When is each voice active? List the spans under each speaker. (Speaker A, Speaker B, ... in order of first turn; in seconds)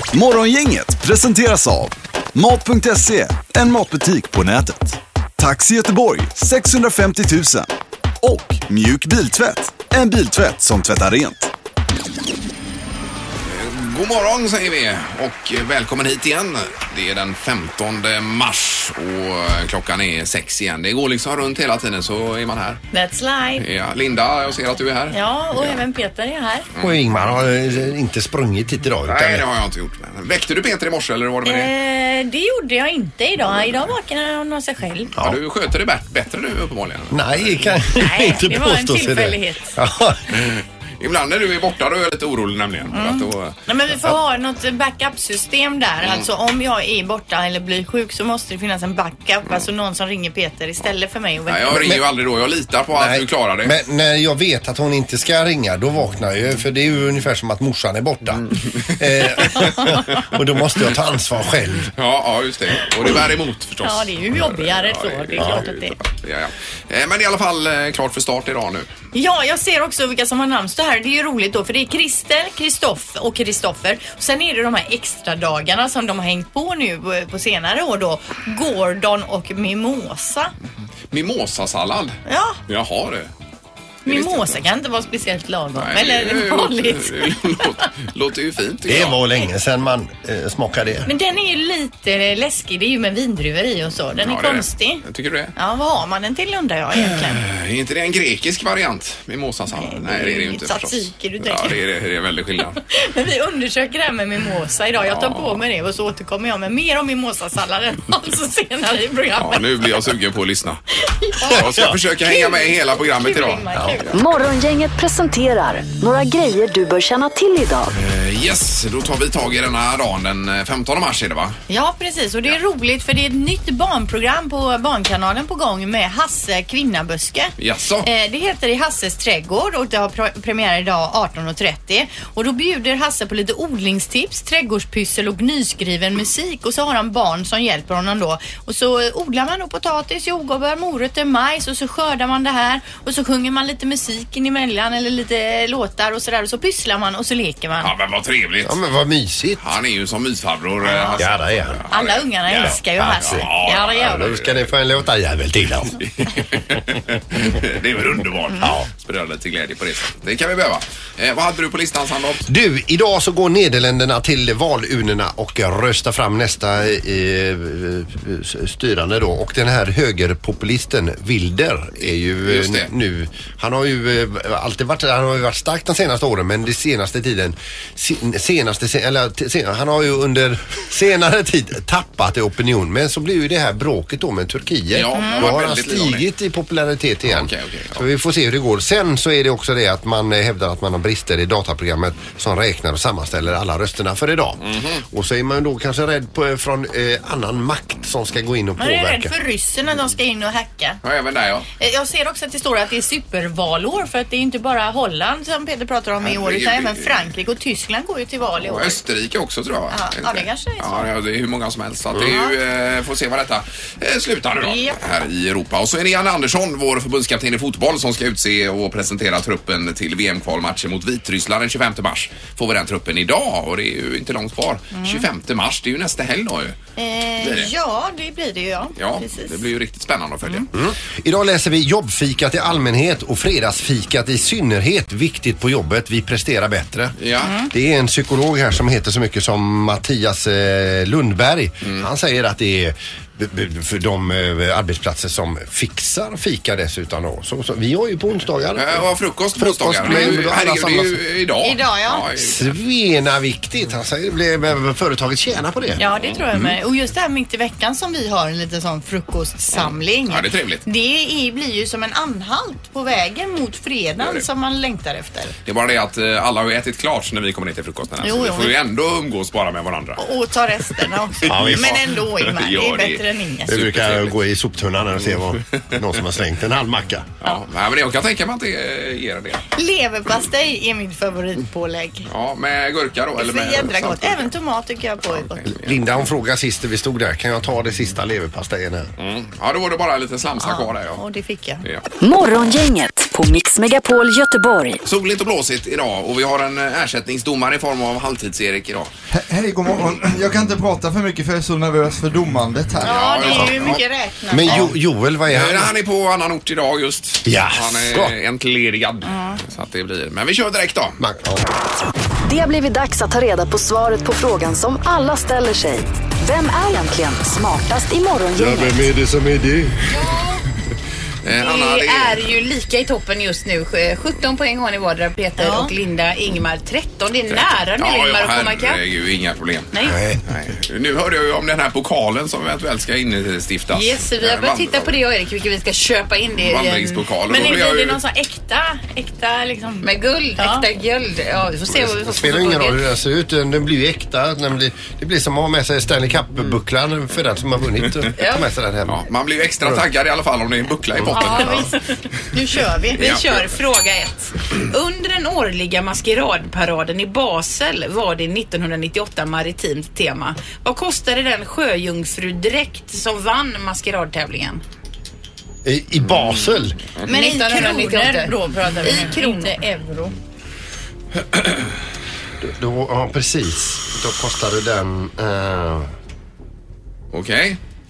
Speaker A: 0.1-7.7, 8.2-11.5
Speaker B: 13.4-22.8, 23.6-25.8, 29.1-31.7, 35.1-37.7, 40.4-43.5, 51.5-53.7, 58.4-59.5, 61.9-68.9, 81.1-82.2, 82.7-83.3, 84.1-84.6, 85.8-89.2, 94.2-95.5, 97.0-102.8, 105.1-105.6, 109.4-110.8, 111.5-113.8, 117.9-121.6, 127.6-128.1, 147.8-148.8, 149.6-154.7, 156.0-162.4, 172.4-172.9, 184.9-186.2, 187.2-188.0, 194.6-195.0, 201.0-201.7, 206.2-207.2, 208.6-226.8, 227.4-227.7, 229.0-230.7, 237.2-237.5, 248.8-252.7, 256.0-256.4, 259.7-260.8, 264.2-264.4, 265.6-270.2, 271.4-274.4, 277.4-279.6, 282.3-284.5, 285.3-286.1, 289.2-291.2, 295.0-299.1, 303.0-304.0, 304.6-304.9, 305.5-311.2, 321.4-322.4, 327.5-329.9, 330.4-335.2, 336.6-338.2, 349.1-351.9, 353.2-353.6, 366.3-367.3, 377.3-377.8
Speaker C: 22.9-23.6, 25.1-26.7, 31.4-35.1, 37.9-39.7, 42.9-51.9, 59.5-59.9, 63.8-66.0, 69.1-80.5, 82.2-82.6, 84.0-87.6, 91.0-95.0, 95.5-97.4, 99.7-101.8, 102.9-109.7, 111.2-111.7, 112.2-114.1, 121.7-147.9, 150.8-151.2, 151.9-154.3, 185.1-185.5, 198.8-201.0, 201.8-209.0, 209.9-211.1, 212.2-212.5, 214.6-214.9, 224.9-225.2, 227.0-229.7, 237.4-237.7, 251.6-252.2, 256.0-265.5, 268.2-268.8, 270.2-273.7, 279.8-282.3, 283.4-285.6, 290.6-291.8, 303.0-304.9, 309.2-309.6, 325.6-325.9, 337.5-340.9, 351.4-351.9, 352.5-353.4, 367.3-370.3
Speaker D: 26.8-29.4, 37.1-40.4, 51.7-52.0, 52.9-61.9, 65.4-65.7, 88.9-91.1, 111.6-111.9, 148.6-149.6, 151.2-151.8, 152.6-156.0, 158.6-158.9, 162.4-199.3, 230.7-237.1, 237.7-249.1, 249.6-251.2, 252.4-256.0, 271.5-271.9, 273.7-277.3, 285.7-289.1, 304.5-305.9, 307.4-308.3, 311.2-311.7, 318.5-320.0, 330.1-330.4, 341.9-349.2, 351.2-351.6, 365.8-367.0, 372.6-376.1
Speaker E: 114.1-117.9, 292.2-295.0, 312.5-319.1
Speaker F: 299.3-303.7
Speaker G: 320.1-320.6, 321.6-329.0, 333.9-337.2, 340.0-343.0, 348.3-348.6, 351.3-351.9, 353.2-364.8, 367.3-369.8